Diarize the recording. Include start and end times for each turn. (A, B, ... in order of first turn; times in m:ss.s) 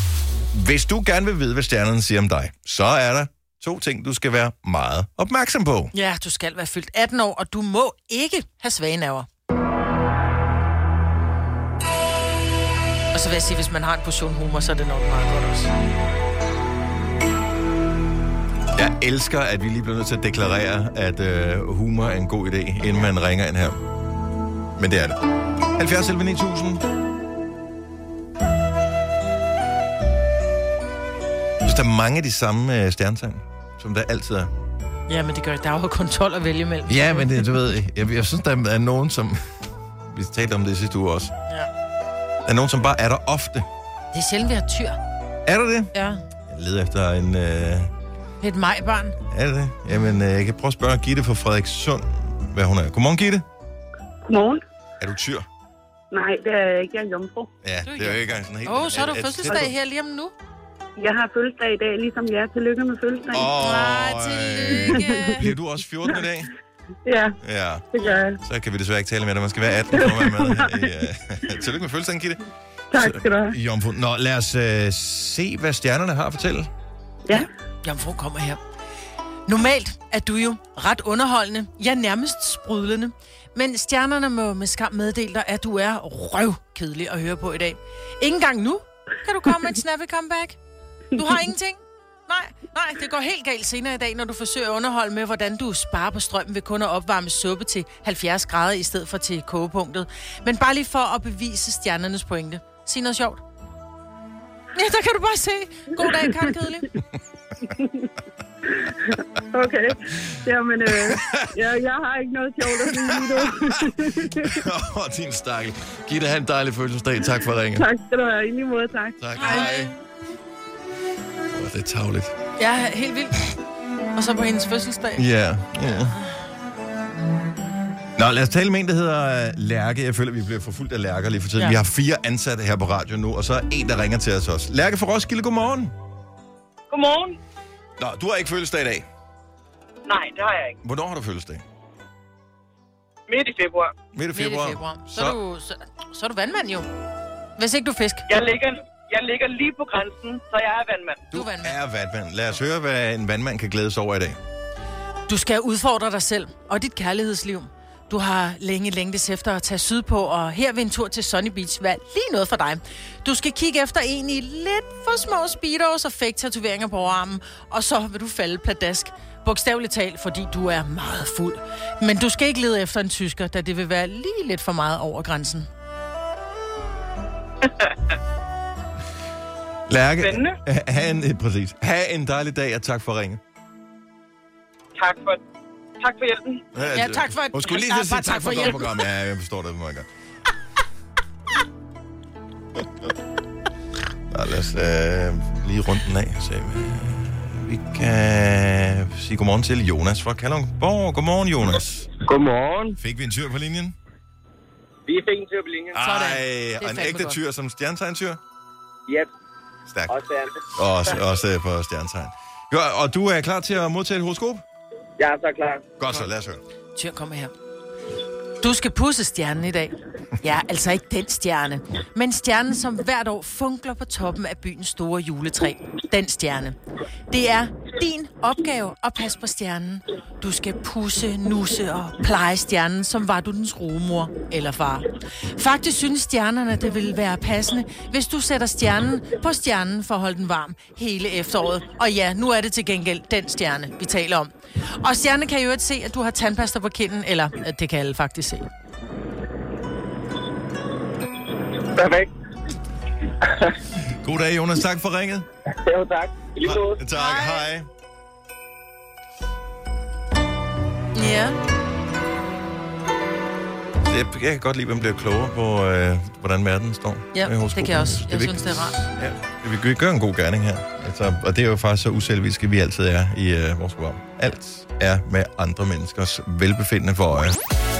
0:00.5-0:05.9 A
0:05.9-0:09.3 B
0:13.1-0:15.7 B
0:18.7-0:23.8 A
0:24.8-0:25.2 A
0:25.8-0:26.8 A
0:31.6-0:34.5 A
0:35.1-0:37.5 B
0:36.9-0:39.4 A
0:40.1-0:41.3 A
0:42.4-0:43.6 A
0:44.1-0:45.0 B
0:45.4-0:45.9 A
0:45.9-0:46.2 B
0:46.5-0:47.9 A
0:48.4-0:49.2 B
0:49.3-0:53.4 A
0:54.2-0:54.6 C
0:55.0-0:55.4 A
0:56.1-0:57.5 C
0:57.6-0:59.7 A
0:57.8-1:00.3 B
1:01.0-1:03.6 C
1:03.3-1:06.5 A
1:03.6-1:05.5 B
1:04.7-1:05.4 C
1:07.0-1:07.4 C
1:07.4-1:07.8 A
1:07.9-1:08.4 C
1:08.4-1:12.4 A
1:10.0-1:10.9 C
1:12.9-1:13.5 C
1:12.9-1:16.7 A
1:17.3-1:18.6 B
1:19.4-1:30.6 B
1:31.1-1:43.4 B
1:44.7-1:46.9 B
1:47.7-1:48.1 C
1:48.8-1:54.6 C
1:51.0-1:51.4 A
1:52.8-1:53.6 A
1:54.4-1:57.8 A
1:57.8-1:59.7 C
1:59.2-1:59.9 A
1:59.4-1:59.9 B
2:01.5-2:02.3 A
2:02.6-2:03.5 B
2:04.1-2:05.3 B
2:05.2-2:06.1 A
2:05.8-2:06.4 B
2:08.2-2:15.9 A
2:16.9-2:17.4 D
2:18.0-2:19.0 A
2:20.0-2:20.8 D
2:20.8-2:21.6 A
2:23.3-2:23.9 D
2:24.1-2:25.4 A
2:24.3-2:26.9 B
2:27.6-2:28.3 B
2:28.3-2:31.3 D
2:31.3-2:31.8 B
2:31.3-2:34.4 A
2:35.3-2:55.7 B
2:59.9-3:03.4 A
3:00.2-3:00.6 D
3:05.0-3:05.4 D
3:06.0-3:06.6 D
3:06.7-3:10.0 A
3:06.9-3:08.8 B
3:14.3-3:22.1 A
3:22.2-3:23.0 E
3:23.0-3:23.9 A
3:25.1-3:26.0 E
3:25.9-3:28.4 A
3:26.0-3:27.4 B
3:30.1-3:30.6 E
3:30.7-3:34.6 A
3:35.2-3:35.8 E
3:36.0-3:36.6 A
3:36.9-3:37.5 B
3:38.6-3:46.8 B
3:47.3-4:08.7 B
4:11.9-4:12.3 E
4:14.2-4:15.4 A
4:15.8-4:17.0 E
4:16.6-4:17.9 A
4:17.1-4:17.6 B
4:21.1-4:21.6 B
4:24.0-4:37.6 A
4:27.3-4:29.0 B